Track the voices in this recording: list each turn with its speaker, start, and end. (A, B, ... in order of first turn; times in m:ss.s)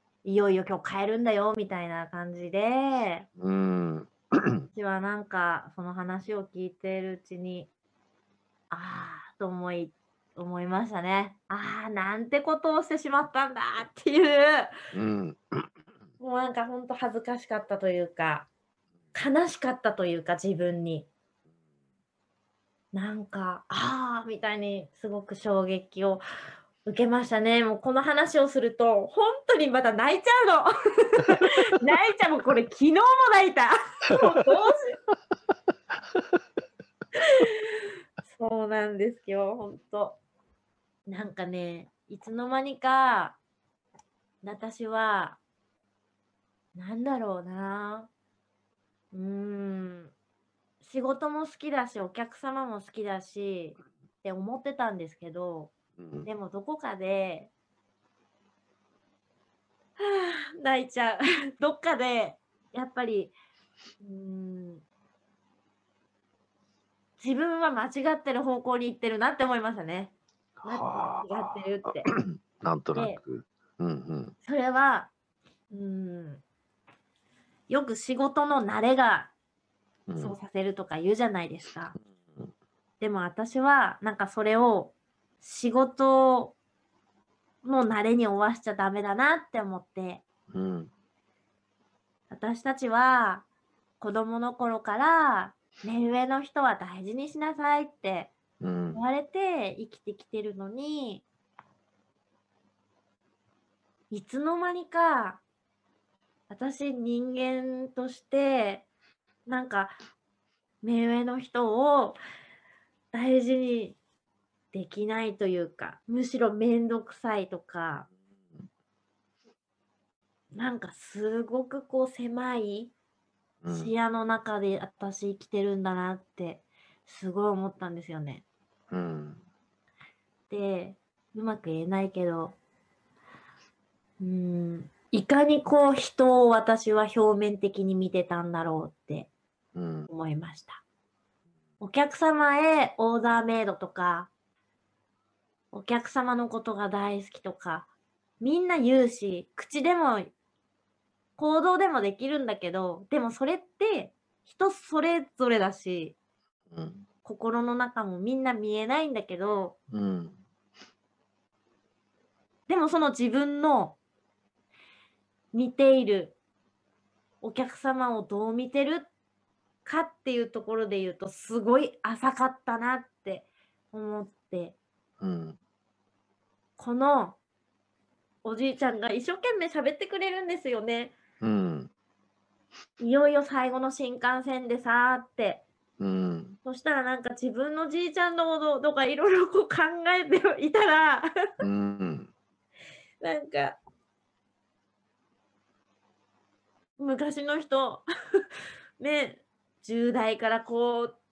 0:00.2-0:03.3 A
0:03.4-0:04.7 B
0:04.7-0:07.7 A
0:08.7-0:14.7 A
0:14.9-0:15.7 B
0:16.2-0:18.5 A
0:19.1-0:21.1 A
0:22.9-0:26.2 A
0:26.8-0:35.0 A
0:37.2-0:37.6 A
0:38.3-0:40.2 A
0:41.1-0:43.4 A
0:44.4-0:45.4 A
0:46.8-0:48.1 A
0:49.1-0:50.1 A
0:50.8-0:55.7 A
0:56.0-0:56.3 B
0:56.3-0:57.5 A
1:00.0-1:03.3 A
1:04.0-1:04.8 A
1:07.2-1:10.1 A
1:10.6-1:14.4 B
1:10.7-1:12.1 A
1:13.0-1:13.2 A
1:14.4-1:15.1 A
1:15.7-1:16.4 A
1:17.7-1:19.3 A
1:20.1-1:20.4 B
1:20.2-1:22.0 A
1:22.2-1:22.5 B
1:23.0-1:26.6 A
1:27.6-1:30.2 A
1:30.5-1:30.9 B
1:32.3-1:33.5 A
1:34.0-1:38.3 A
1:38.6-1:39.0 B
1:38.9-1:41.2 A
1:44.1-1:45.4 A
1:46.5-1:48.9 A
1:49.5-1:50.0 A
1:50.8-1:52.2 A
1:53.1-1:54.0 A
1:54.7-1:58.1 A
2:00.5-2:02.9 A
2:03.6-2:03.9 B
2:03.7-2:08.4 A
2:08.9-2:09.4 B
2:10.5-2:12.6 A
2:14.2-2:19.3 A
2:19.8-2:20.1 B
2:20.1-2:20.8 A
2:21.8-2:24.3 A
2:25.7-2:30.3 A
2:31.4-2:36.2 A
2:36.7-2:37.0 B
2:37.2-2:39.8 A
2:39.9-2:40.4 B
2:42.7-2:44.0 A
2:45.5-2:46.4 A
2:47.4-2:49.1 A
2:49.8-2:54.8 A
2:55.2-2:55.6 B
2:56.8-2:57.4 A
2:58.4-3:01.2 A
3:01.4-3:01.9 B
3:03.0-3:05.6 A
3:06.0-3:06.6 B
3:06.6-3:11.3 A
3:11.6-3:12.3 B
3:13.2-3:13.8 A
3:17.0-3:18.0 A
3:19.0-3:21.2 A